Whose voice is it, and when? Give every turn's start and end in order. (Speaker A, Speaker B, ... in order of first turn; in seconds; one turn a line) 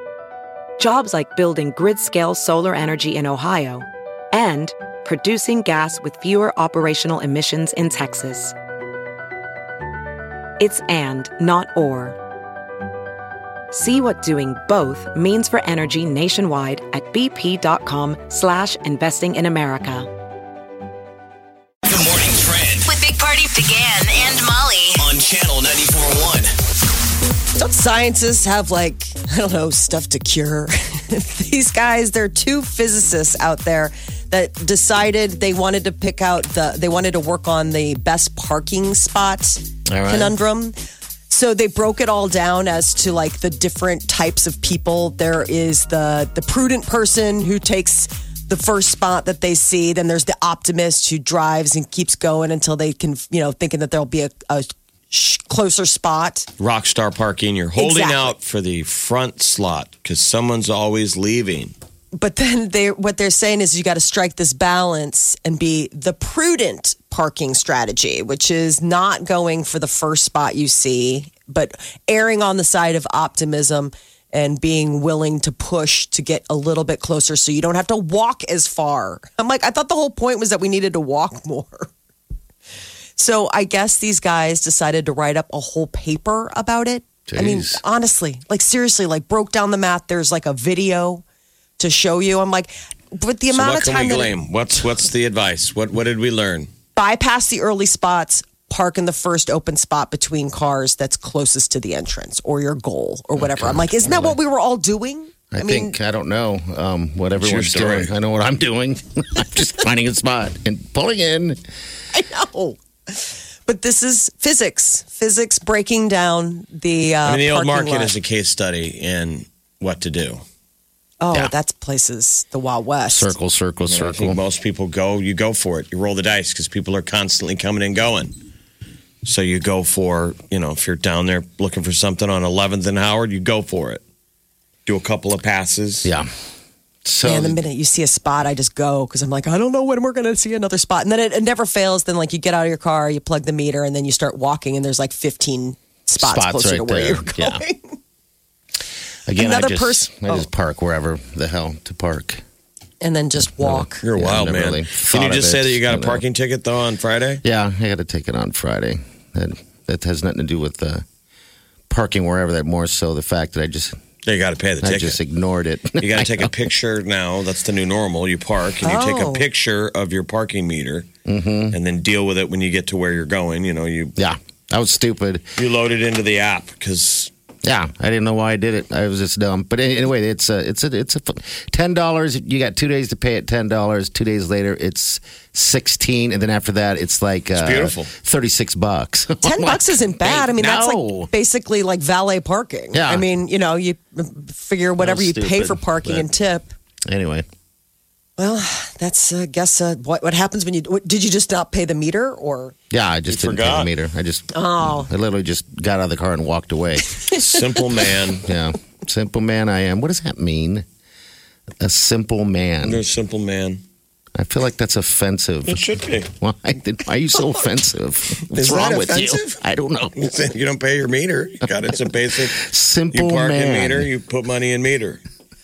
Speaker A: 0.8-8.5
Speaker A: 10.6-12.2
Speaker A: 13.7-20.1
Speaker B: 21.9-22.9
Speaker C: 22.9-25.1
Speaker B: 24.9-26.5
Speaker D: 27.6-40.8
Speaker E: 39.9-40.3
Speaker D: 41.3-56.5
Speaker F: 56.6-61.7
Speaker D: 57.8-58.3
Speaker D: 62.1-81.9
Speaker D: 83.2-91.2
Speaker E: 87.3-87.8
Speaker D: 91.8-94.4
Speaker F: 93.5-96.7
Speaker D: 97.0-106.0
Speaker E: 103.4-104.4
Speaker E: 105.5-111.6
Speaker F: 107.4-108.1
Speaker D: 112.1-118.2
Speaker F: 117.2-120.4
Speaker D: 121.2-123.4
Speaker E: 123.1-124.4
Speaker F: 123.8-128.3
Speaker F: 129.2-134.0
Speaker F: 134.9-136.1
Speaker E: 137.1-137.6
Speaker D: 137.2-148.0
Speaker E: 146.2-147.6
Speaker E: 149.3-152.4
Speaker D: 149.4-150.5
Speaker D: 153.0-154.0
Speaker E: 153.4-156.2
Speaker F: 154.0-157.4
Speaker E: 157.4-161.0
Speaker E: 161.9-164.0
Speaker F: 164.2-165.2
Speaker E: 164.8-166.6
Speaker F: 166.0-171.1
Speaker D: 168.8-169.5
Speaker E: 171.3-171.8
Speaker F: 171.7-174.2
Speaker E: 174.2-175.5
Speaker F: 175.6-177.3
Speaker E: 177.6-191.3
Speaker F: 187.6-188.1
Speaker D: 189.4-196.7
Speaker F: 190.2-190.5
Speaker E: 192.9-193.2
Speaker E: 195.0-196.3
Speaker E: 197.1-197.5
Speaker D: 198.4-202.7
Speaker E: 202.9-207.2
Speaker F: 203.3-203.9
Speaker D: 204.5-205.1
Speaker F: 207.3-208.5
Speaker E: 208.4-210.8
Speaker E: 211.8-213.0
Speaker F: 212.8-213.8
Speaker E: 214.3-220.3
Speaker F: 215.7-216.3
Speaker F: 218.5-219.6
Speaker F: 220.2-225.2
Speaker E: 222.6-224.1